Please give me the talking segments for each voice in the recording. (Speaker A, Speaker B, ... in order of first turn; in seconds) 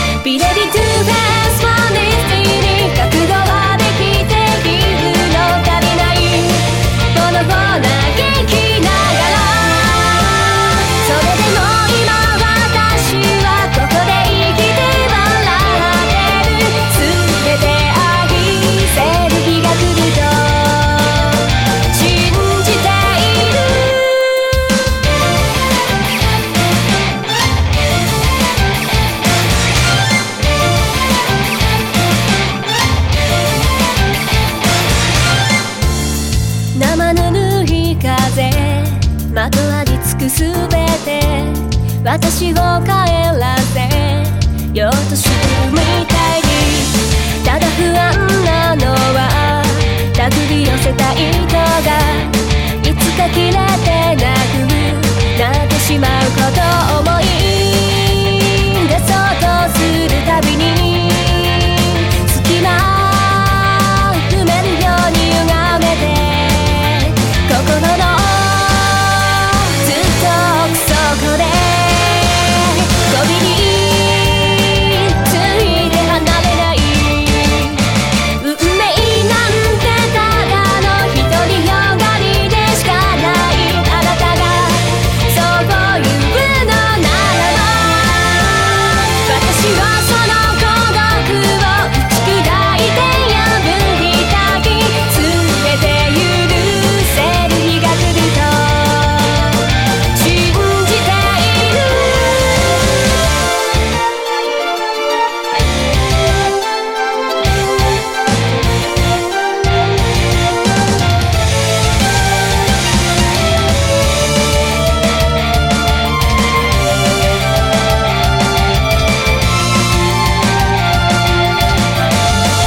Speaker A: 0.2-24.5, 36.7-77.8, 78.4-102.3